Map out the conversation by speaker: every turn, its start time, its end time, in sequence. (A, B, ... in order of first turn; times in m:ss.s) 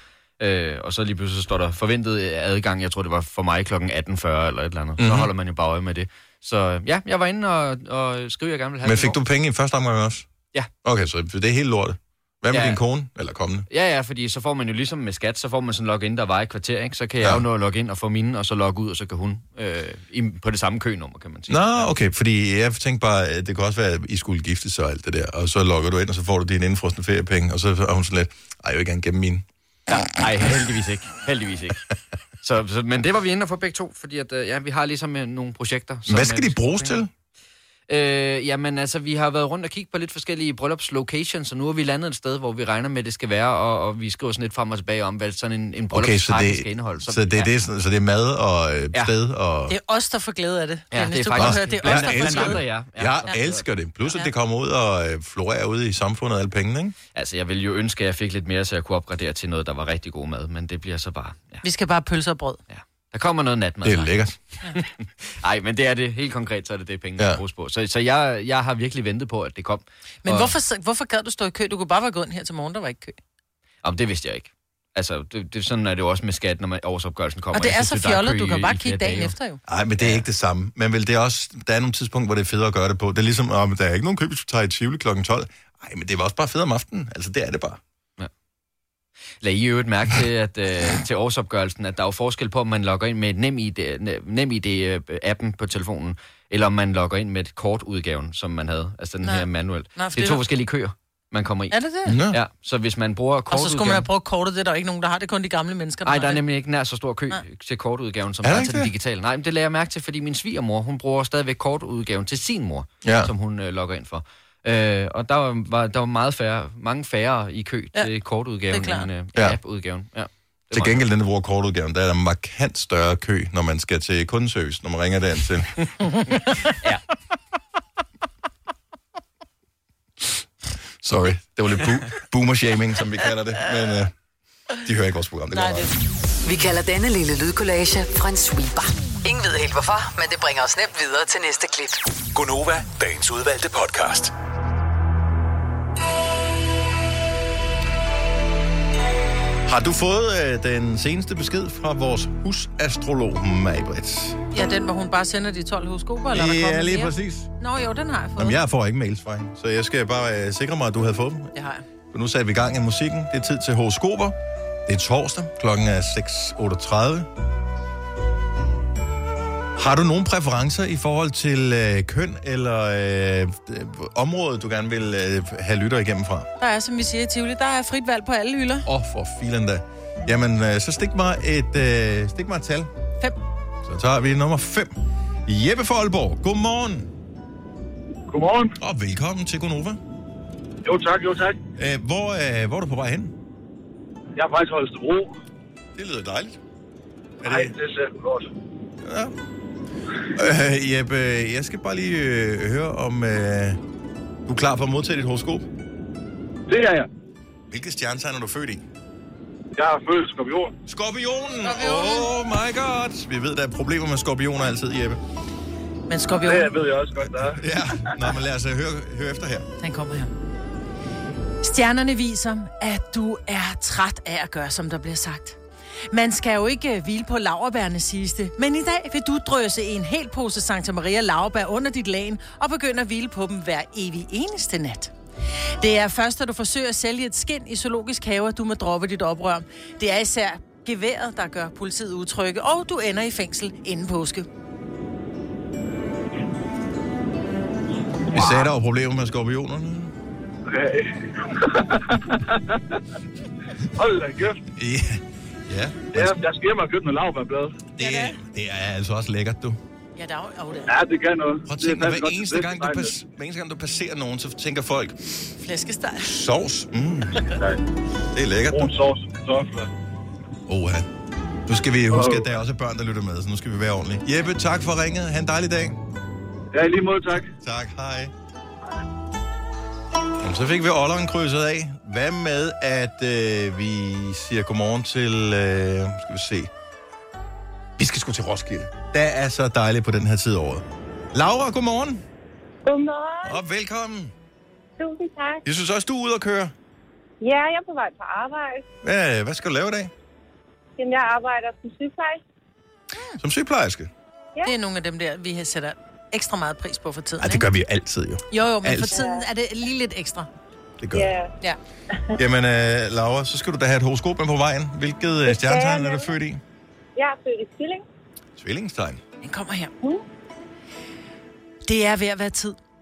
0:00.4-0:09.2 A
0:05.0-0:05.3 B
0:08.8-0:10.3 B
0:10.8-0:13.7 B
0:12.5-0:12.8 A
0:13.7-0:21.9 A
0:17.2-0:17.5 B
0:21.5-0:29.4 B
0:29.9-0:37.0 A
0:36.1-0:37.1 B
0:37.9-0:47.5 A
0:45.9-0:49.8 B
0:49.7-0:52.6 C
0:50.9-0:53.6 A
0:51.4-0:57.0 B
0:57.2-1:01.6 A
1:01.6-1:02.6 C
1:02.7-1:04.2 A
1:03.8-1:04.4 B
1:04.7-1:10.5 A
1:10.2-1:13.2 C
1:13.8-1:19.3 A
1:17.5-1:19.6 C
1:19.7-1:27.8 B
1:20.0-1:20.2 A
1:29.4-1:44.1 A
1:39.2-1:40.4 C
1:41.7-1:42.2 C
1:42.1-1:42.4 B
1:43.5-1:46.4 C
1:46.0-2:01.0 A
1:48.4-1:48.9 B
1:53.0-1:53.3 B
1:58.7-1:59.1 C
2:00.7-2:05.9 B
2:06.2-2:06.7 C
2:11.0-2:14.1 B
2:14.8-2:15.9 B
2:15.5-2:15.9 C
2:16.4-2:22.0 D
2:22.3-2:24.3 E
2:29.6-2:34.4 B
2:34.5-2:38.6 C
2:36.3-2:37.5 B
2:38.4-2:41.5 B
2:41.6-2:41.8 C
2:42.1-2:47.3 B
2:49.8-2:56.5 B
2:56.6-2:58.9 C
2:58.8-3:02.9 B
3:03.8-3:05.0 B
3:05.5-3:07.1 B
3:08.3-3:08.8 F
3:08.8-3:10.0 B
3:10.8-3:11.6 F
3:11.8-3:13.3 B
3:14.4-3:15.4 F
3:16.0-3:16.6 B
3:17.4-3:17.7 B
3:17.4-3:18.5 F
3:19.0-3:19.4 B
3:20.3-3:23.8 B
3:24.5-3:25.7 B
3:26.7-3:27.1 F
3:27.7-3:28.8 B
3:29.8-3:30.7 F
3:30.9-3:35.2 B
3:31.6-3:32.3 C
3:36.1-3:36.8 C
3:36.4-3:37.6 F
3:37.3-3:39.7 B
3:39.8-3:40.3 C
3:41.6-3:45.6 C
3:46.1-3:55.1 C
3:55.8-4:04.5 C
4:08.3-4:10.1 B
4:10.7-4:12.2 F
4:14.0-4:14.6 F
4:14.7-4:16.4 B
4:16.1-4:17.8 F
4:18.0-4:19.8 B
4:18.0-4:18.4 C
4:20.2-4:21.0 C
4:20.9-4:23.1 F
4:21.7-4:25.5 B
4:25.6-4:26.3 C
4:26.2-4:27.4 B
4:28.3-4:28.9 B
4:28.7-4:29.9 F
4:30.7-4:31.1 B
4:31.7-4:36.0 B
4:32.1-4:32.5 F
4:36.7-4:37.5 F
4:37.6-4:38.3 B
4:40.4-4:46.7 B
4:48.0-4:52.2 B
4:52.8-4:53.6 G
4:53.4-4:54.3 B
4:55.0-4:55.6 G
4:55.6-4:56.7 B
4:57.4-4:58.8 G
4:59.0-5:00.1 B
5:01.0-5:02.4 G
5:03.4-5:04.1 B
5:04.6-5:07.7 C
5:07.4-5:09.2 B
5:08.5-5:10.5 C
5:09.2-5:09.4 G
5:11.0-5:11.4 B
5:11.1-5:11.5 G
5:12.4-5:16.6 B
5:15.5-5:16.3 G
5:17.2-5:18.0 G
5:18.6-5:19.2 B
5:19.4-5:19.9 C
5:21.8-5:22.8 C